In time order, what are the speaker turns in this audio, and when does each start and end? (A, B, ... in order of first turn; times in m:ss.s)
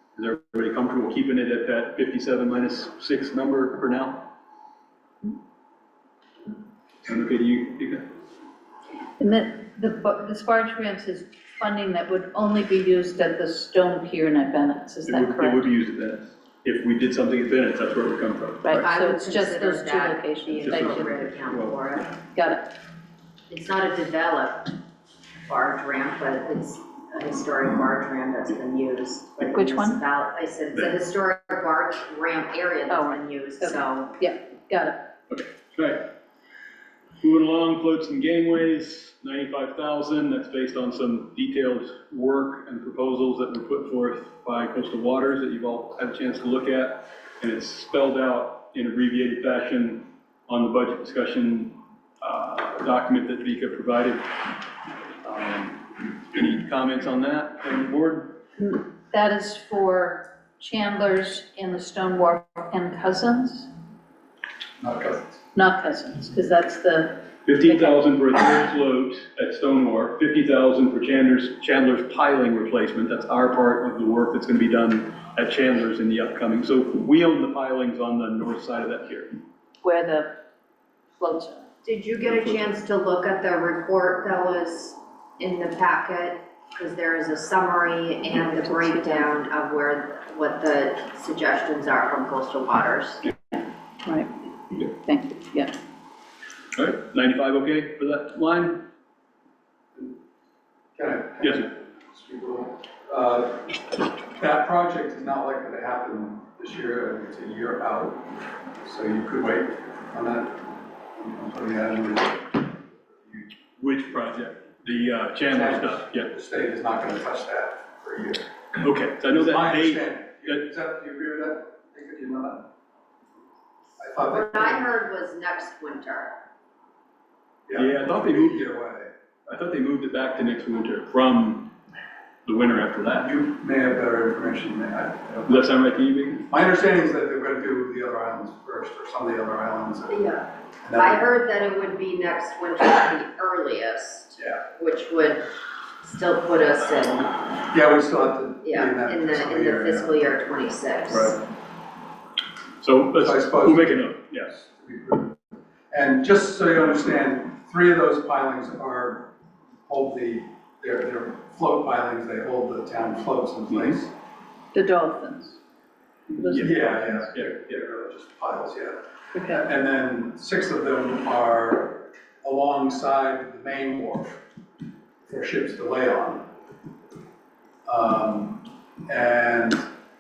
0:00.2-0:04.3 A
0:07.0-0:08.0 A
0:09.2-0:15.6 B
0:15.1-0:18.8 A
0:18.6-0:21.3 B
0:18.7-0:22.2 C
0:20.7-0:21.8 A
0:22.3-0:22.7 B
0:23.5-0:24.8 C
0:25.4-0:34.2 C
0:29.4-0:30.0 B
0:32.9-0:35.1 B
0:35.3-0:36.1 A
0:37.2-0:54.3 A
0:55.2-0:58.4 A
0:58.6-1:03.7 B
1:04.8-1:05.4 D
1:05.5-1:08.0 B
1:07.4-1:19.3 A
1:19.8-1:20.3 B
1:21.2-1:21.7 B
1:21.8-1:33.2 C
1:22.2-1:22.8 A
1:28.3-1:29.3 B
1:34.0-1:35.8 B
1:36.8-1:38.9 A
1:41.0-1:43.8 D
1:44.4-1:53.5 D
1:53.8-1:56.3 A
1:55.5-1:58.5 D
1:58.8-2:00.7 A
1:59.3-2:02.7 D
2:04.0-2:04.9 D
2:04.2-2:06.4 C
2:07.7-2:09.1 D
2:07.8-2:08.7 A
2:09.5-2:11.7 A
2:12.4-2:13.3 A
2:13.2-2:15.7 D
2:15.5-2:16.5 A
2:16.5-2:20.2 D
2:20.1-2:27.4 C
2:20.8-2:21.2 D
2:27.6-2:30.2 D
2:28.6-2:31.4 C
2:32.8-2:34.6 A
2:33.2-2:35.4 D
2:35.9-2:39.3 D
2:39.9-2:44.1 D
2:43.7-2:44.0 A
2:44.7-2:45.6 B
2:46.3-2:47.8 A
2:46.4-2:47.1 B
2:46.5-2:54.4 D
2:49.3-2:49.7 B
2:55.3-2:56.5 D
2:57.8-2:59.9 D